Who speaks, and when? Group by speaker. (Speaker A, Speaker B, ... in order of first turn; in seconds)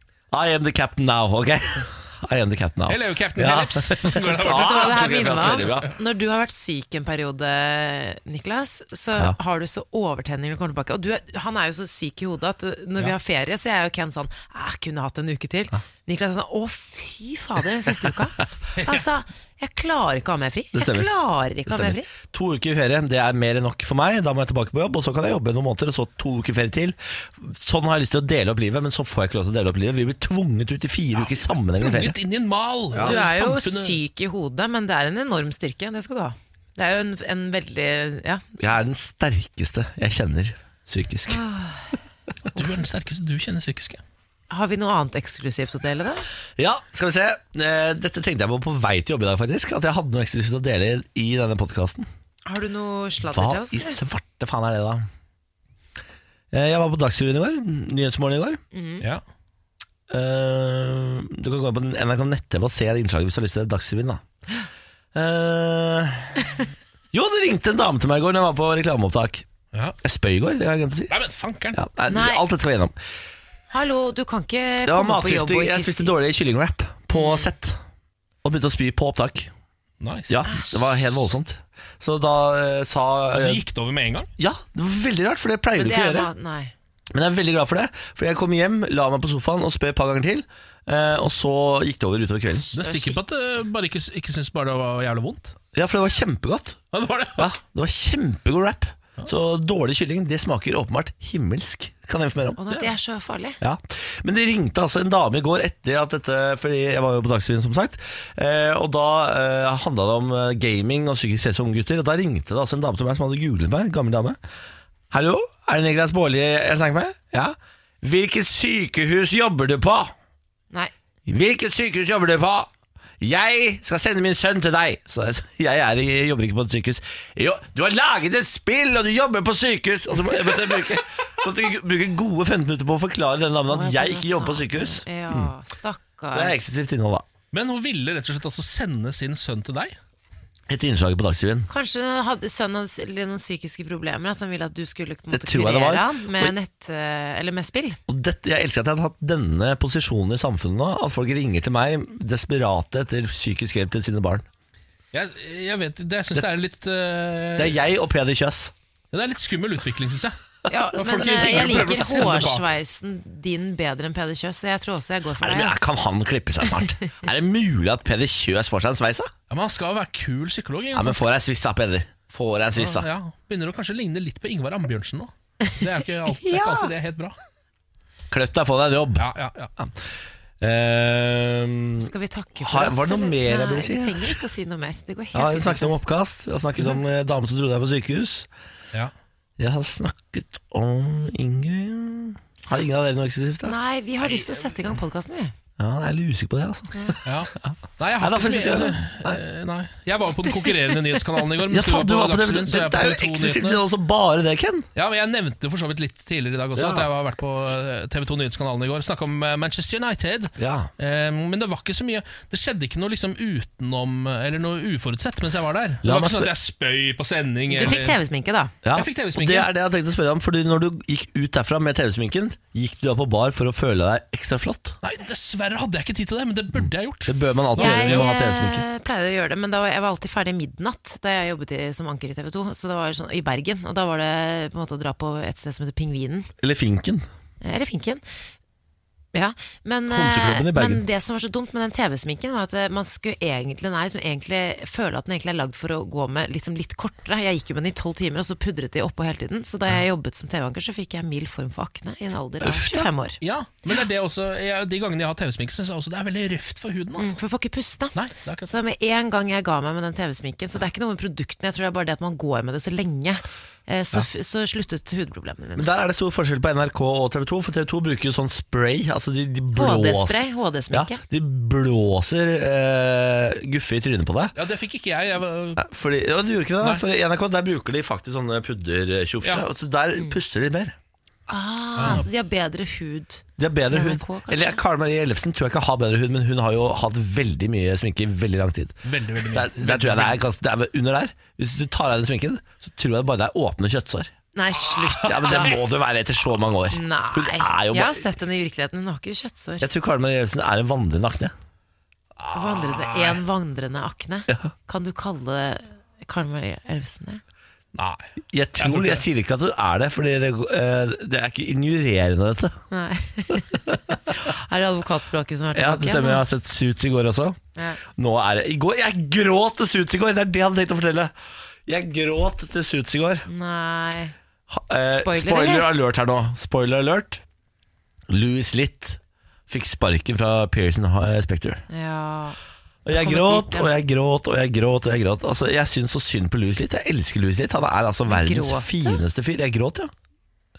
Speaker A: 0.3-5.9, 20.7-21.1, 21.7-32.2, 38.6-41.4, 46.6-52.1, 53.3-55.1, 56.5-58.6, 60.1-64.2, 65.1-66.6, 67.1-69.4, 70.0-71.1, 71.7-73.0, 74.8-77.8, 78.4-79.5, 80.3-83.6, 84.4-86.3, 87.1-92.7, 95.7-96.8, 97.3-102.6, 103.6-114.4, 115.1-120.1, 121.2-122.7, 123.2-135.5, 136.3-137.2, 140.7-141.7, 145.3-146.5, 148.1-154.4, 157.6-158.7, 161.2-162.0, 165.4-169.3, 170.9-173.1, 178.3-180.0, 180.6-184.4, 185.3-188.5, 189.6-193.7, 195.8-199.4, 201.7-204.9, 206.8-207.1, 210.6-210.9, 216.0-216.5, 218.8-225.0, 226.7-228.8, 236.6-237.3, 240.1-241.0, 252.6-253.1, 265.8-274.5, 275.8-280.9, 283.6-294.3, 295.1-298.2, 299.8-301.5, 308.5-312.8, 315.7-321.3, 321.9-323.4, 324.7-327.4, 328.3-331.8, 333.0-340.1
Speaker B: 2.9-5.9, 18.7-19.0, 31.2-34.0, 42.5-44.0, 71.1-71.8, 80.0-80.4, 83.3-84.3, 92.7-95.5, 96.9-97.5, 137.5-140.0, 155.1-157.8, 159.1-160.4, 161.0-162.7, 169.5-171.2, 172.8-177.4, 179.2-179.7, 197.2-203.8, 204.9-218.2, 218.9-219.7, 225.0-228.2, 253.4-257.4, 258.1-258.7, 274.5-275.8, 282.0-282.2, 289.0-290.4, 302.4-303.4, 307.9-308.2, 308.8-309.2
Speaker C: 4.3-22.1, 33.0-38.4, 41.3-41.9, 44.5-46.2, 52.5-54.0, 58.7-59.0, 72.1-72.4, 73.7-76.1, 77.1-77.5, 80.5-81.3, 85.8-86.7, 92.7-93.2, 102.6-103.6, 133.7-136.6, 141.7-148.0, 160.7-165.8, 176.3-176.9, 182.0-186.0, 193.6-195.5, 217.7-218.7, 227.8-236.5, 237.6-238.2, 239.3-253.4, 257.2-265.9, 269.7-271.2, 281.5-284.8, 294.5-295.7, 296.9-299.9, 302.5-307.4, 312.9-316.4, 323.4-324.3, 325.1-325.9, 331.9-332.6, 333.1-334.0, 338.3-339.2